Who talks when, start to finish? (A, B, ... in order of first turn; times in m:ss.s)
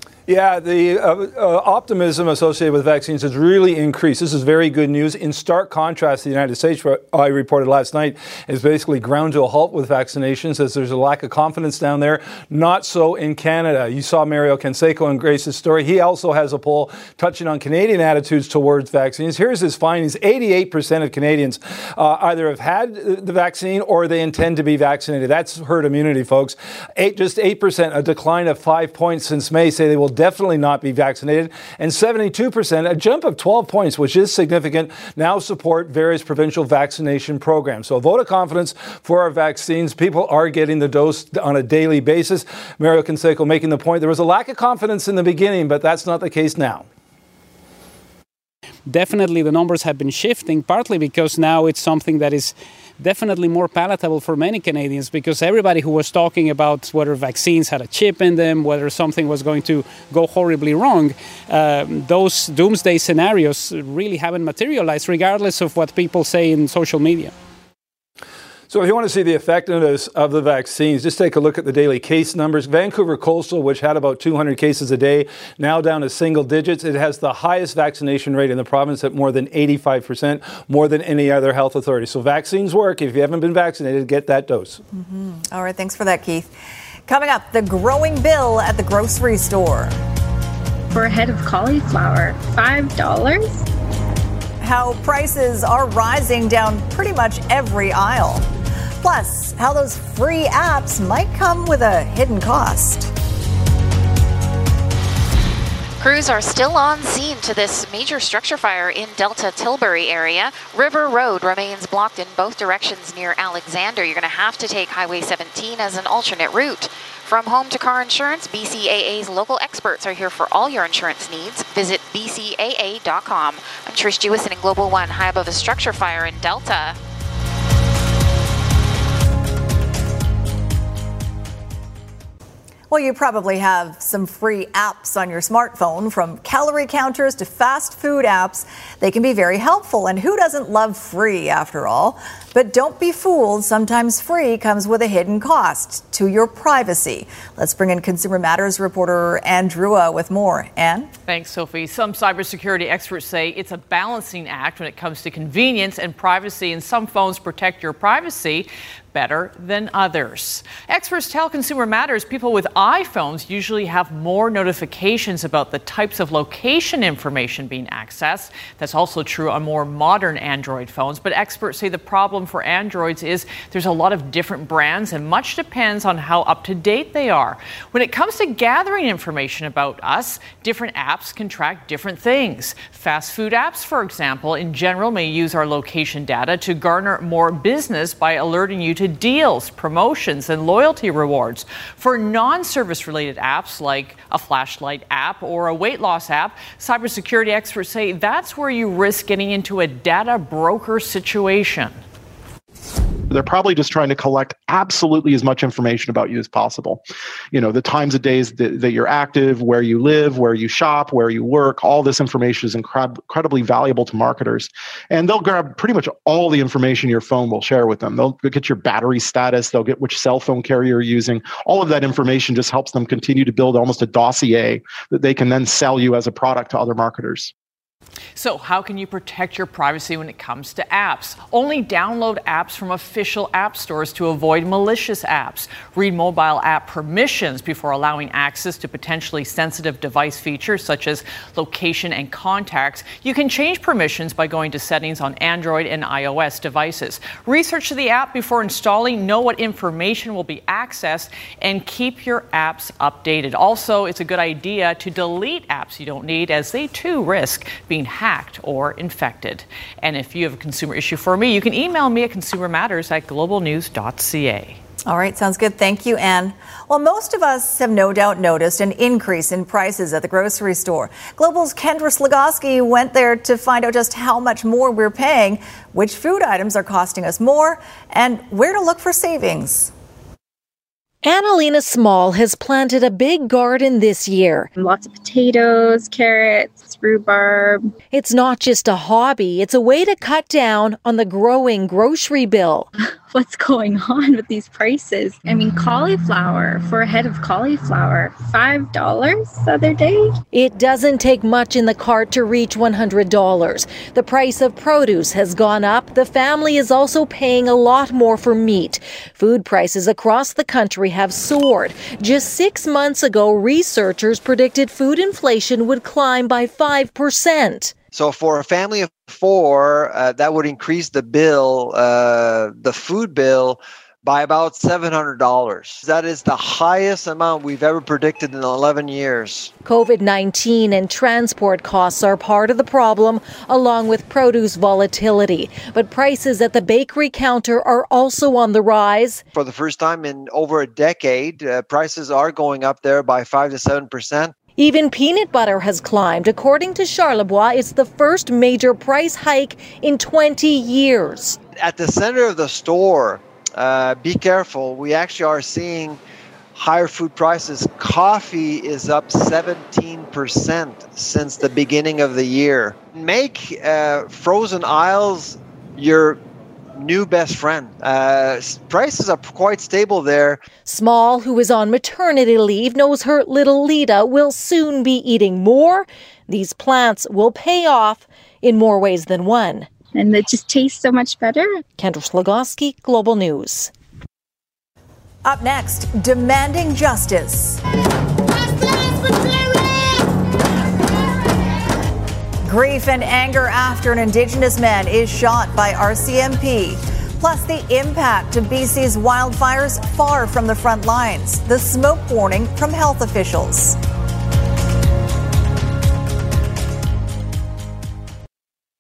0:00.3-0:46.9 A
0:48.9-1:07.3 B
1:08.7-1:24.8 A
1:24.9-1:26.5 C
1:27.1-1:30.0 C
1:30.9-1:33.6 D
1:34.6-1:38.5 C
1:39.0-1:43.1 C
1:46.0-2:07.0 E
2:12.9-2:31.1 C
2:31.3-3:22.0 F
3:23.3-3:27.0 G
3:27.5-3:47.5 G
3:48.4-4:24.8 F
4:25.1-4:39.9 C
4:41.2-4:44.7 H
4:44.8-4:47.8 D
4:48.1-4:52.9 H
4:53.3-5:00.4 D
5:00.5-5:17.9 H
5:18.1-5:29.7 I
5:29.8-5:39.4 H
5:39.5-5:44.5 I
5:44.8-5:51.6 H
5:51.8-5:56.2 I
5:56.8-6:06.4 I
6:07.0-6:10.6 I
6:10.9-6:19.9 H
6:20.2-6:21.8 D
6:22.0-6:23.9 H
6:25.4-6:27.8 C
6:32.6-6:44.0 C